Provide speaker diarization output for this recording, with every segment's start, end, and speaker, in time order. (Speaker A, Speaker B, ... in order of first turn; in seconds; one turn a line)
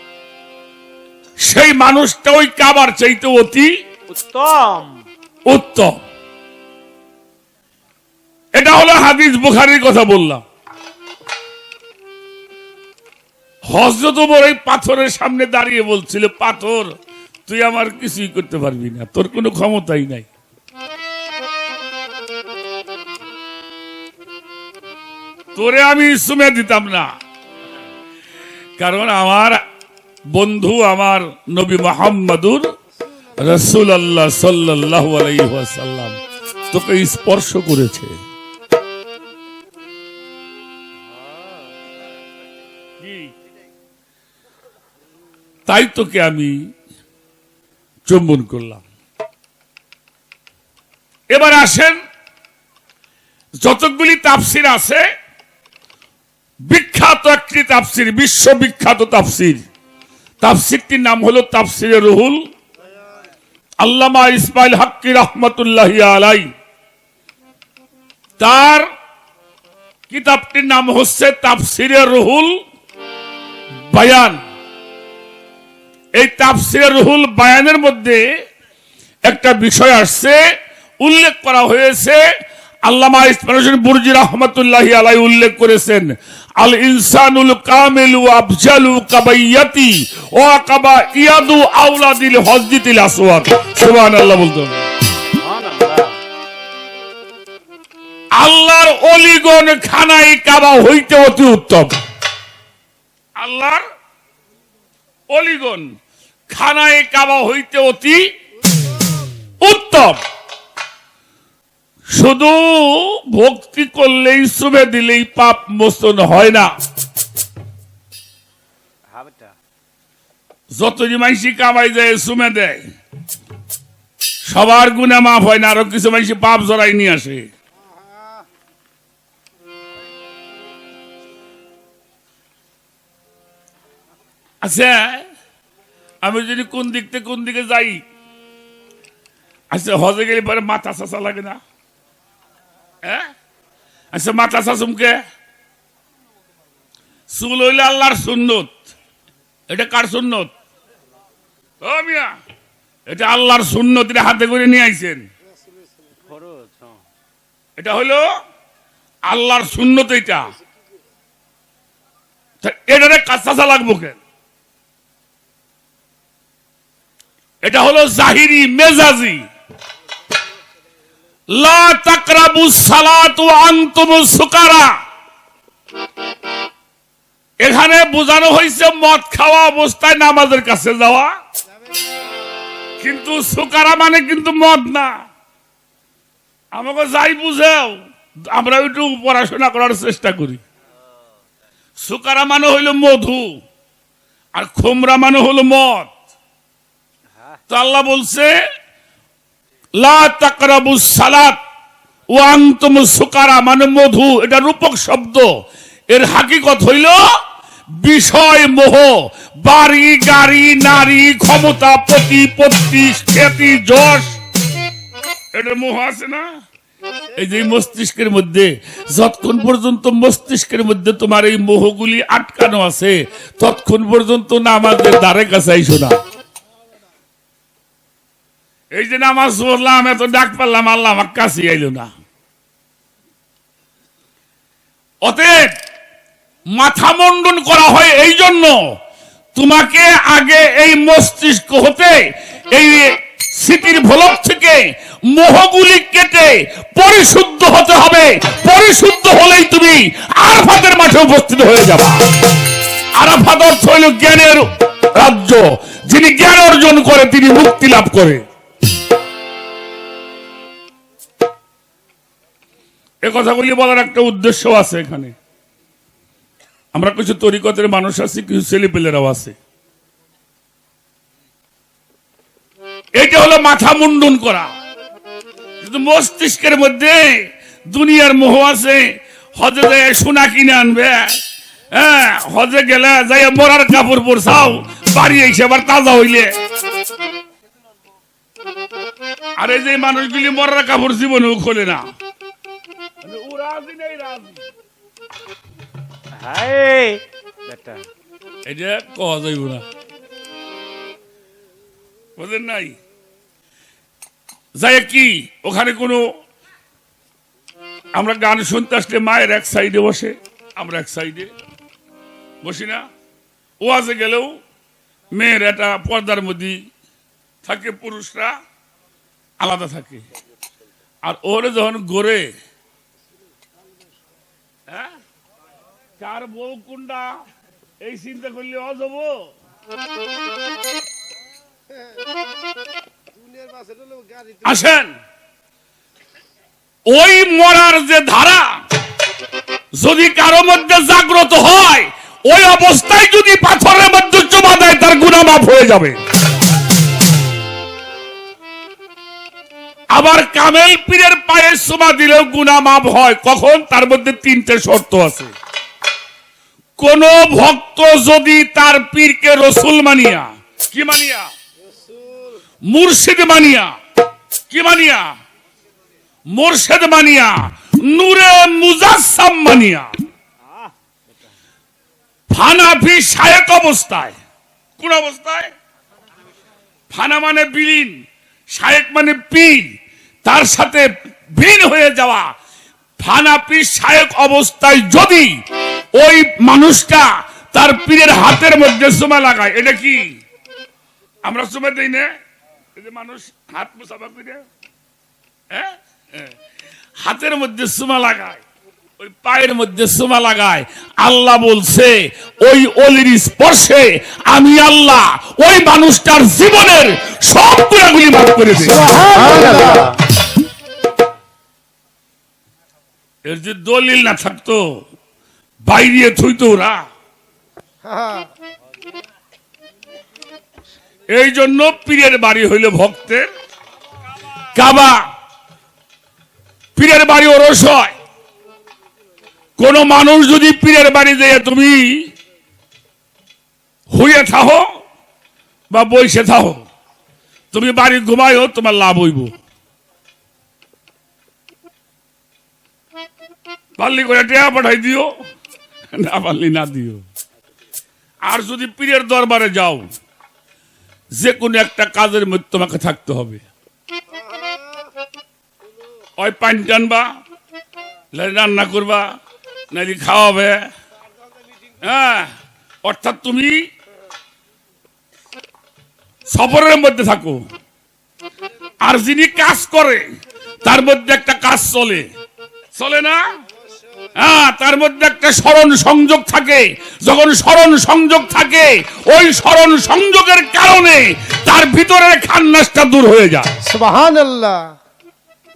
Speaker A: 1.4-3.7
Speaker B: 4.1-5.0
Speaker A: 5.5-6.0
Speaker A: 8.6-10.4
Speaker A: 13.7-16.9
Speaker A: 17.5-20.3
Speaker A: 25.6-27.1
Speaker A: 28.8-29.6
Speaker A: 30.3-32.7
Speaker A: 33.4-36.2
Speaker A: 36.7-38.1
Speaker B: 41.2-41.6
Speaker A: 43.0-43.3
Speaker A: 45.7-46.5
Speaker A: 48.1-48.8
Speaker A: 51.3-52.0
Speaker A: 53.6-55.0
Speaker A: 56.6-59.6
Speaker A: 60.4-62.4
Speaker A: 63.8-66.5
Speaker A: 68.4-68.9
Speaker A: 70.1-72.6
Speaker A: 73.9-74.4
Speaker A: 76.2-78.2
Speaker A: 79.2-80.4
Speaker A: 81.0-82.2
Speaker A: 82.8-94.9
Speaker B: 95.4-96.2
Speaker A: 98.3-101.9
Speaker A: 103.4-103.8
Speaker A: 105.3-105.9
Speaker A: 106.5-108.3
Speaker A: 109.6-110.2
Speaker A: 112.1-116.7
Speaker B: 119.1-119.5
Speaker A: 120.7-122.8
Speaker A: 124.5-127.5
Speaker A: 134.6-135.3
Speaker A: 136.2-138.0
Speaker A: 139.7-141.6
Speaker A: 143.0-143.3
Speaker A: 144.1-145.2
Speaker A: 147.3-148.8
Speaker A: 149.7-150.5
Speaker A: 151.8-152.3
Speaker A: 153.1-155.3
Speaker B: 156.2-157.0
Speaker A: 157.8-158.3
Speaker A: 159.3-160.5
Speaker A: 162.6-164.2
Speaker A: 167.6-169.4
Speaker A: 171.5-174.9
Speaker A: 177.6-181.3
Speaker A: 183.0-185.2
Speaker A: 186.7-190.6
Speaker A: 192.0-193.6
Speaker A: 194.6-196.1
Speaker A: 197.7-198.5
Speaker A: 200.0-201.6
Speaker A: 202.3-205.5
Speaker A: 206.1-207.2
Speaker A: 208.0-214.4
Speaker A: 215.5-216.5
Speaker A: 217.3-226.2
Speaker A: 228.9-232.1
Speaker A: 235.2-235.7
Speaker A: 236.7-238.9
Speaker A: 239.5-252.2
Speaker A: 253.2-258.4
Speaker A: 263.2-265.4
Speaker A: 266.9-269.6
Speaker A: 273.1-274.7
Speaker A: 275.8-281.4
Speaker A: 281.9-286.5
Speaker A: 289.6-292.1
Speaker A: 293.2-294.6
Speaker B: 296.4-298.0
Speaker A: 298.6-299.9
Speaker A: 302.4-303.0
Speaker A: 304.8-306.2
Speaker A: 308.1-311.5
Speaker A: 312.6-313.1
Speaker A: 313.8-314.6
Speaker A: 315.3-316.8
Speaker A: 317.6-318.6
Speaker A: 319.6-320.2
Speaker A: 321.2-322.5
Speaker A: 326.2-327.4
Speaker A: 328.0-329.5
Speaker C: 333.6-334.5
Speaker A: 334.6-335.1
Speaker A: 337.1-338.8
Speaker A: 339.9-346.2
Speaker A: 350.1-355.5
Speaker A: 357.0-361.5
Speaker A: 362.9-363.9
Speaker A: 364.7-365.3
Speaker A: 366.5-370.1
Speaker A: 372.5-374.4
Speaker A: 375.0-375.7
Speaker A: 377.1-378.2
Speaker A: 378.7-379.9
Speaker A: 380.4-382.5
Speaker A: 383.2-385.5
Speaker A: 386.1-390.3
Speaker A: 391.4-392.3
Speaker A: 393.0-394.6
Speaker A: 395.7-396.5
Speaker A: 397.2-398.6
Speaker A: 399.2-409.1
Speaker C: 408.9-410.1
Speaker B: 409.1-410.1
Speaker A: 413.5-414.8
Speaker A: 415.9-417.0
Speaker C: 418.1-418.5
Speaker A: 421.3-423.5
Speaker A: 424.8-425.2
Speaker A: 427.0-428.1
Speaker A: 429.8-432.3
Speaker A: 434.1-434.9
Speaker A: 435.9-436.9
Speaker A: 437.7-439.5
Speaker A: 444.0-445.3
Speaker A: 446.1-447.2
Speaker A: 448.4-450.1
Speaker A: 451.4-453.6
Speaker A: 456.4-457.3
Speaker A: 458.3-459.3
Speaker A: 459.9-460.9
Speaker A: 462.0-462.5
Speaker A: 463.1-463.9
Speaker A: 466.5-467.6
Speaker A: 469.0-470.3
Speaker A: 470.8-472.3
Speaker A: 472.9-473.4
Speaker A: 474.4-483.7
Speaker C: 483.8-484.9